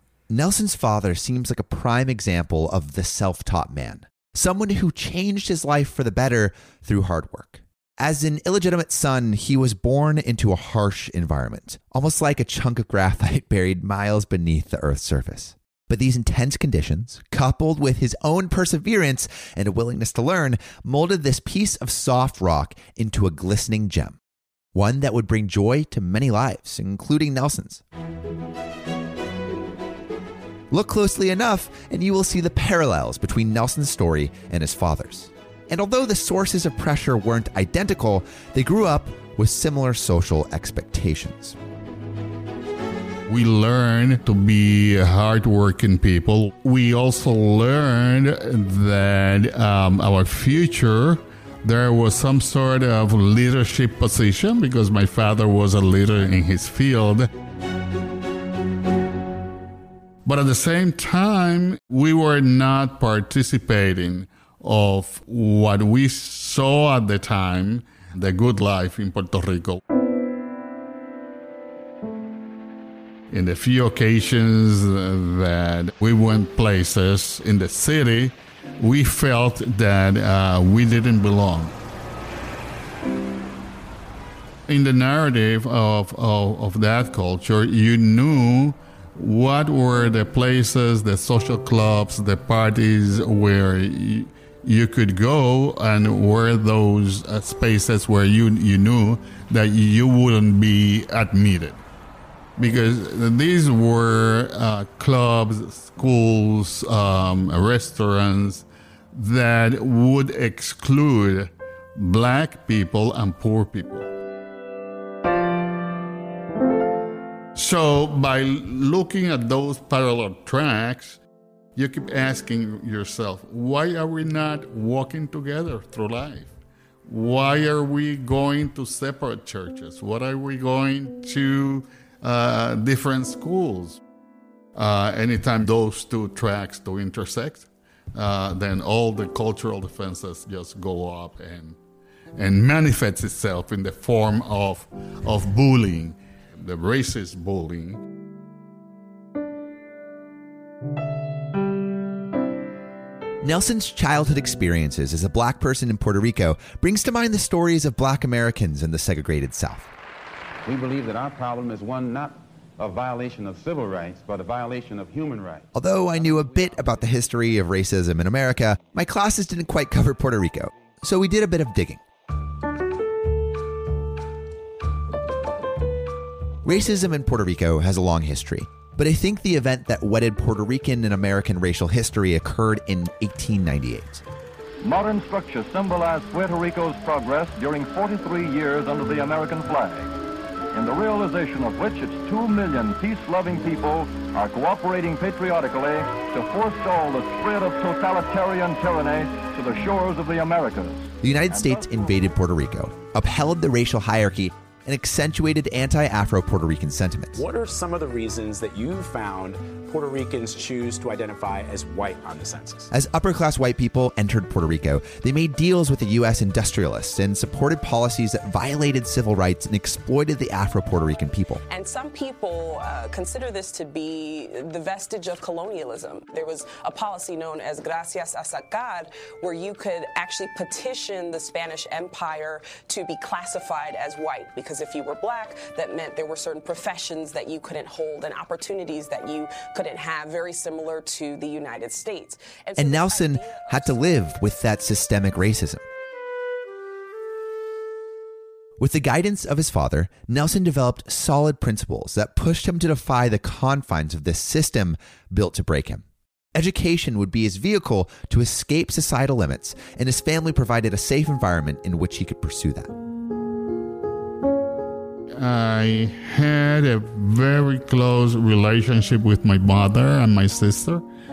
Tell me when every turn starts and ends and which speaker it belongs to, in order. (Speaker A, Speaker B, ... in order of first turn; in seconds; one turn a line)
Speaker A: 0.3-24.2
Speaker A: 24.7-27.8
Speaker A: 30.7-41.6
Speaker B: 43.3-57.3
Speaker B: 60.2-69.8
Speaker B: 73.3-81.8
Speaker B: 84.7-101.8
Speaker B: 102.6-114.1
Speaker B: 117.5-121.2
Speaker B: 121.8-126.5
Speaker B: 127.1-134.0
Speaker B: 134.8-141.8
Speaker B: 142.4-148.0
Speaker A: 153.4-159.9
Speaker C: 160.7-165.7
Speaker A: 165.7-172.0
Speaker A: 176.6-184.2
Speaker D: 184.8-190.1
Speaker D: 190.7-202.2
Speaker A: 201.2-207.4
Speaker E: 207.4-212.9
Speaker A: 212.9-221.6
Speaker F: 221.7-244.3
Speaker A: 242.8-245.8
Speaker A: 248.8-262.9
Speaker B: 265.4-271.0